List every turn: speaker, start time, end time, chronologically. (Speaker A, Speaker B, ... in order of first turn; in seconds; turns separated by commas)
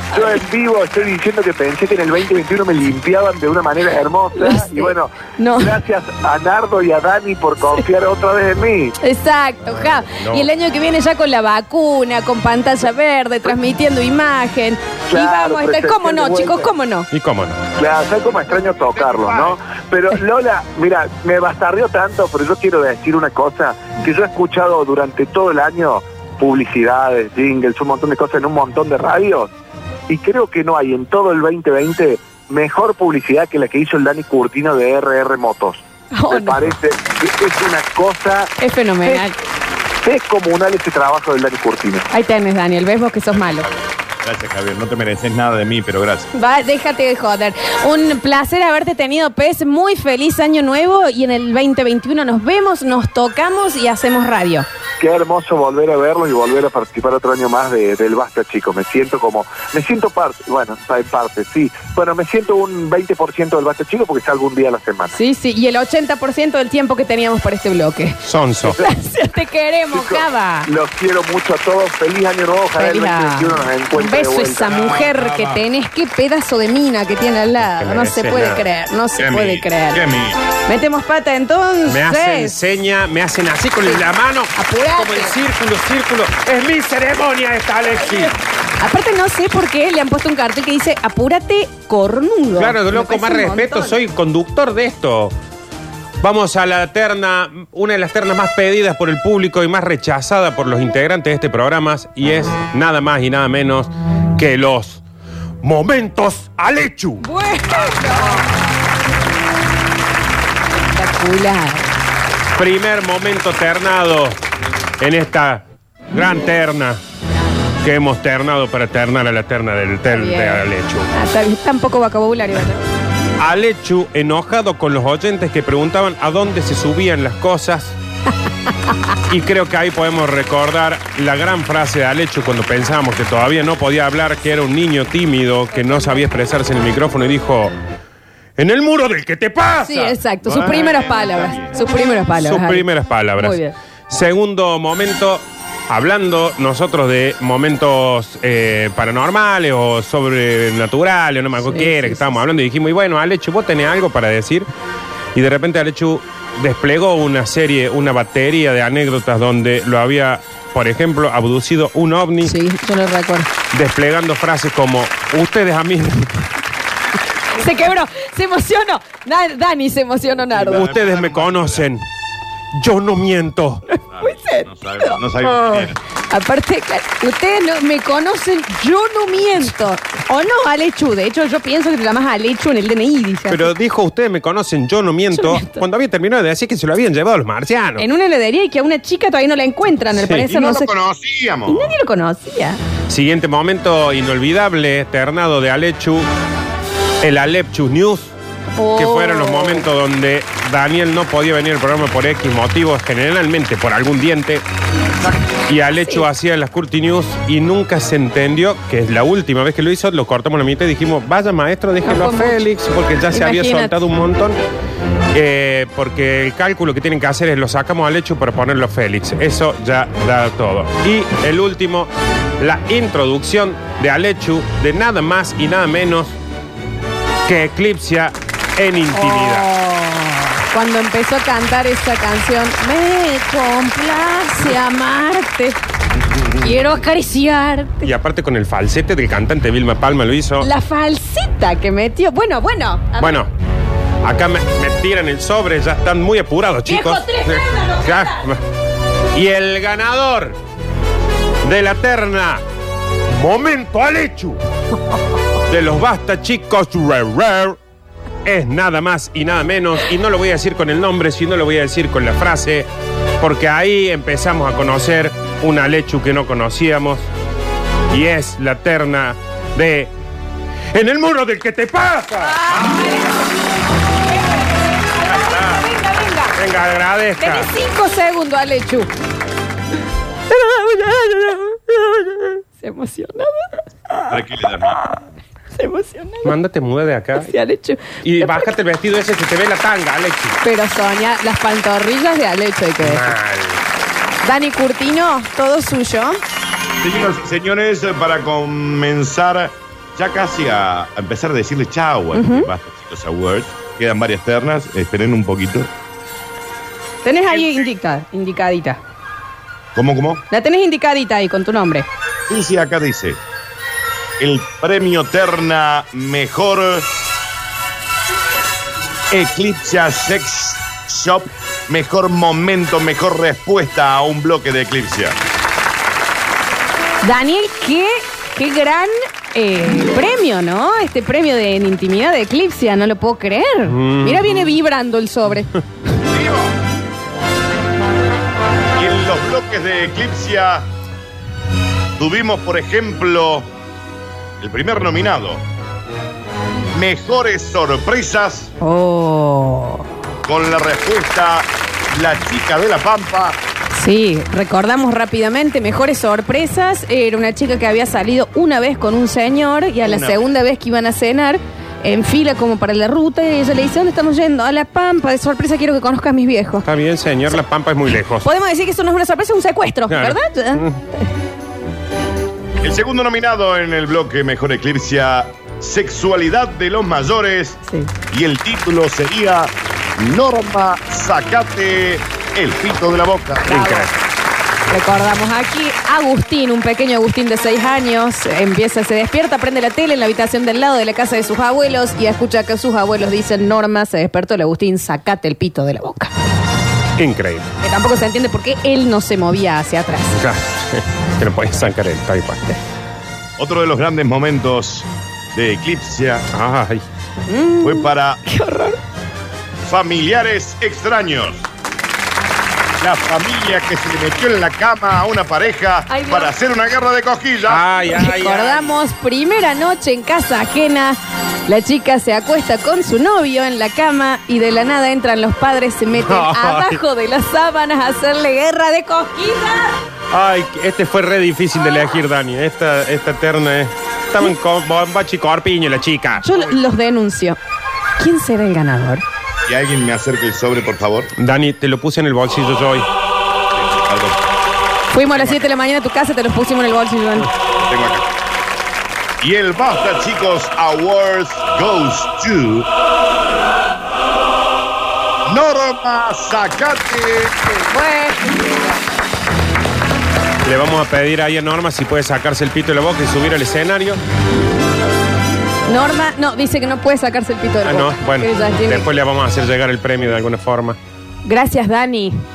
Speaker A: 0.1-0.4, Speaker B: 0.1-9.0, Speaker A: 4.3-5.8, Speaker A: 9.0-17.1, Speaker C: 10.0-10.5, Speaker B: 15.1-16.7, Speaker C: 17.1-17.6, Speaker B: 17.8-29.5, Speaker D: 18.9-19.5, Speaker B: 30.1-38.5, Speaker A: 36.1-36.7, Speaker A: 38.6-39.4, Speaker B: 40.0-42.1, Speaker A: 42.1-43.7, Speaker D: 43.3-46.3, Speaker A: 46.3-54.7, Speaker B: 55.0-65.2, Speaker A: 65.1-68.2, Speaker C: 68.2-68.8, Speaker A: 68.8-70.7, Speaker B: 69.9-74.8, Speaker A: 72.8-80.0, Speaker D: 74.7-75.6, Speaker C: 77.7-78.6, Speaker D: 79.2-80.4, Speaker A: 80.7-82.5, Speaker C: 81.9-88.3, Speaker A: 84.5-85.3, Speaker A: 88.8-94.0, Speaker C: 92.6-95.3, Speaker C: 96.2-105.0, Speaker C: 105.6-107.2, Speaker A: 107.2-108.5, Speaker A: 110.9-111.9, Speaker C: 112.6-114.4, Speaker C: 115.0-117.0, Speaker C: 117.8-121.1, Speaker A: 120.1-122.8, Speaker C: 123.4-128.0, Speaker C: 129.3-137.7, Speaker A: 135.8-136.2, Speaker C: 138.6-140.2, Speaker A: 139.8-142.8, Speaker D: 140.4-141.8, Speaker C: 142.4-154.7, Speaker A: 143.4-143.7, Speaker A: 151.6-152.4, Speaker C: 155.3-162.5, Speaker A: 162.4-163.5, Speaker C: 163.7-166.4, Speaker A: 167.5-170.9, Speaker D: 170.4-171.9, Speaker C: 170.8-172.1, Speaker C: 172.7-173.8, Speaker A: 173.9-183.7, Speaker D: 174.1-176.0, Speaker C: 183.5-188.1, Speaker A: 185.3-185.8, Speaker A: 188.0-190.9, Speaker C: 190.1-190.5, Speaker D: 190.5-191.9, Speaker A: 191.7-192.8, Speaker C: 193.1-196.3, Speaker C: 197.2-198.3, Speaker A: 198.8-199.9, Speaker C: 199.0-204.6, Speaker C: 205.7-214.6, Speaker A: 212.0-212.7, Speaker A: 213.3-214.0, Speaker C: 215.3-226.3, Speaker C: 227.5-229.7, Speaker A: 229.1-235.8, Speaker A: 236.6-238.1, Speaker C: 238.0-240.7, Speaker A: 240.6-243.4, Speaker C: 243.2-243.5, Speaker C: 244.2-248.6, Speaker A: 246.9-248.4, Speaker C: 249.3-250.6, Speaker C: 251.6-252.6, Speaker C: 253.3-254.6, Speaker C: 255.7-257.8, Speaker C: 258.4-262.9, Speaker C: 263.4-267.3, Speaker C: 268.1-270.1, Speaker C: 270.9-272.8, Speaker A: 272.4-273.5, Speaker A: 274.3-276.6, Speaker C: 276.6-277.7, Speaker A: 277.4-279.1, Speaker A: 280.5-284.3, Speaker D: 284.3-285.1, Speaker A: 285.8-286.5, Speaker C: 286.4-287.5, Speaker A: 287.4-288.7, Speaker C: 288.2-290.6, Speaker A: 290.6-293.3, Speaker C: 293.0-293.8, Speaker A: 294.4-296.4, Speaker D: 297.0-305.9, Speaker A: 302.3-302.7, Speaker A: 307.2-309.0, Speaker D: 307.5-307.9, Speaker D: 309.9-310.4, Speaker A: 310.5-312.1, Speaker D: 312.5-313.4, Speaker D: 314.4-317.1, Speaker D: 319.3-325.4, Speaker A: 327.2-335.7, Speaker C: 333.9-334.7, Speaker D: 336.3-336.8, Speaker D: 339.0-340.9, Speaker D: 342.2-343.7, Speaker D: 344.6-345.6, Speaker D: 346.9-348.7, Speaker A: 348.8-350.1, Speaker D: 350.4-353.6, Speaker A: 353.9-366.9, Speaker D: 360.0-360.4, Speaker C: 366.8-368.5, Speaker A: 368.4-370.8, Speaker C: 370.1-371.0, Speaker D: 372.8-377.8, Speaker D: 378.3-383.8, Speaker A: 383.7-384.1, Speaker C: 383.7-384.1, Speaker A: 384.9-396.3, Speaker C: 397.2-397.7, Speaker A: 397.8-400.4, Speaker C: 400.3-402.6, Speaker D: 403.6-406.5, Speaker C: 406.5-407.0, Speaker A: 407.5-409.0, Speaker D: 407.8-408.4, Speaker D: 409.8-411.7, Speaker D: 413.0-417.8, Speaker A: 416.1-416.5, Speaker C: 417.7-418.9, Speaker A: 418.1-430.0, Speaker C: 426.2-427.0, Speaker C: 430.3-436.4, Speaker A: 436.4-437.6, Speaker A: 438.2-439.2, Speaker D: 439.7-441.3, Speaker C: 441.4-443.1, Speaker D: 443.7-444.4, Speaker A: 445.1-447.5, Speaker D: 445.3-445.7, Speaker D: 447.8-448.3, Speaker D: 449.4-452.9, Speaker D: 455.4-457.5, Speaker A: 457.8-458.8, Speaker C: 460.6-464.2, Speaker A: 465.9-469.1, Speaker C: 467.9-471.0, Speaker A: 471.5-472.4